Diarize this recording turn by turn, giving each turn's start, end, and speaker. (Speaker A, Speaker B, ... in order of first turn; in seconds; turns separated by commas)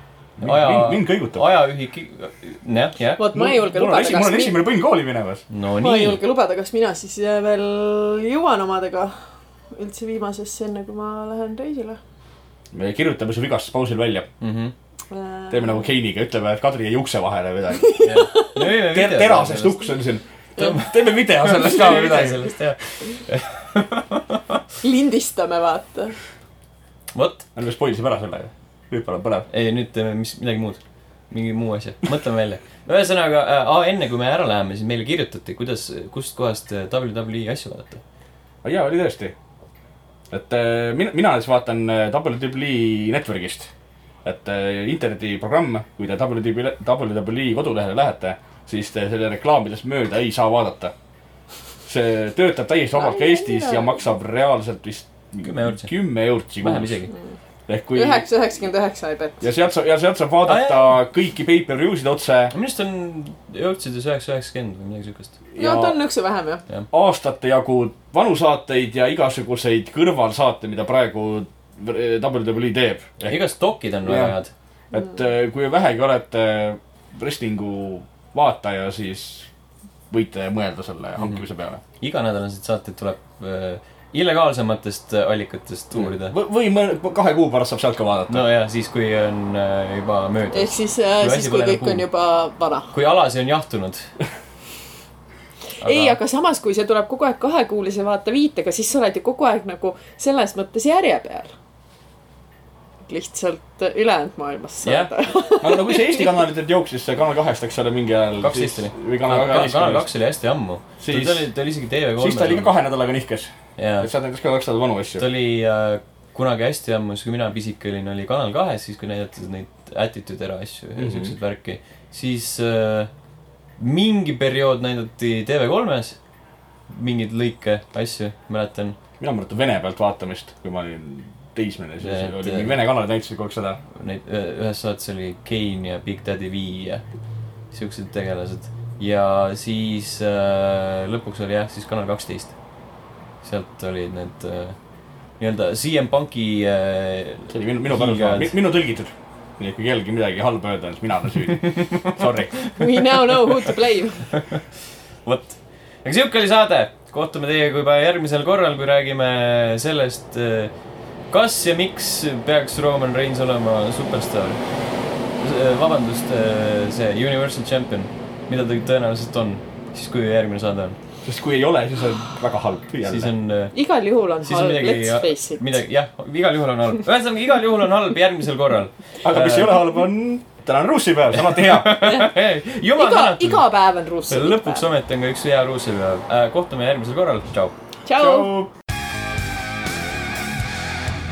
Speaker A: 0.4-1.4, Speaker B: 0.4-3.2, Speaker C: 3.2-4.6, Speaker A: 3.3-5.4, Speaker B: 5.5-6.2, Speaker C: 5.8-9.2, Speaker C: 9.7-12.0, Speaker A: 12.7-14.3, Speaker B: 14.4-14.7, Speaker C: 15.1-15.9, Speaker A: 15.5-18.0, Speaker C: 17.8-18.5, Speaker B: 18.0-19.9, Speaker A: 18.9-22.5, Speaker B: 20.6-24.6, Speaker C: 24.8-26.1, Speaker B: 27.1-27.4, Speaker A: 27.6-29.5, Speaker B: 29.5-38.0, Speaker A: 38.6-39.3, Speaker A: 40.3-43.7, Speaker A: 44.2-50.9, Speaker A: 51.9-57.0, Speaker C: 52.9-54.0, Speaker B: 55.4-55.9, Speaker B: 56.6-57.1, Speaker A: 57.7-58.3, Speaker C: 57.9-59.4, Speaker A: 59.4-62.5, Speaker B: 60.5-61.0, Speaker B: 62.5-65.3, Speaker A: 65.5-66.0, Speaker C: 65.6-66.6, Speaker A: 66.9-73.4, Speaker B: 73.2-74.5, Speaker A: 74.0-74.3, Speaker A: 74.9-79.5, Speaker A: 80.1-81.8, Speaker B: 81.2-81.4, Speaker B: 82.0-86.3, Speaker A: 85.9-88.5, Speaker B: 88.3-92.0, Speaker C: 90.5-92.9, Speaker B: 92.9-94.1, Speaker B: 95.8-96.2, Speaker C: 95.8-101.5, Speaker C: 103.1-106.4, Speaker B: 104.8-105.1, Speaker A: 105.6-110.1, Speaker B: 108.4-112.7, Speaker A: 111.0-111.5, Speaker A: 112.2-115.3, Speaker B: 113.8-114.1, Speaker B: 115.2-123.1, Speaker A: 121.0-121.3, Speaker B: 123.8-126.2, Speaker B: 126.9-128.9, Speaker A: 129.2-133.8, Speaker B: 132.0-132.8, Speaker B: 133.9-137.0, Speaker B: 137.7-142.5, Speaker B: 143.4-144.8, Speaker B: 145.4-148.5, Speaker A: 147.5-152.6, Speaker B: 151.6-153.7, Speaker C: 152.7-154.3, Speaker B: 154.3-154.6, Speaker B: 155.2-160.7, Speaker B: 161.3-164.6, Speaker B: 165.4-170.9, Speaker A: 171.2-173.3, Speaker B: 173.0-173.7, Speaker C: 173.7-175.7, Speaker B: 174.4-179.8, Speaker A: 179.2-182.0, Speaker B: 181.3-183.7, Speaker C: 182.9-184.8, Speaker B: 184.3-187.7, Speaker C: 188.1-188.5, Speaker A: 188.2-188.7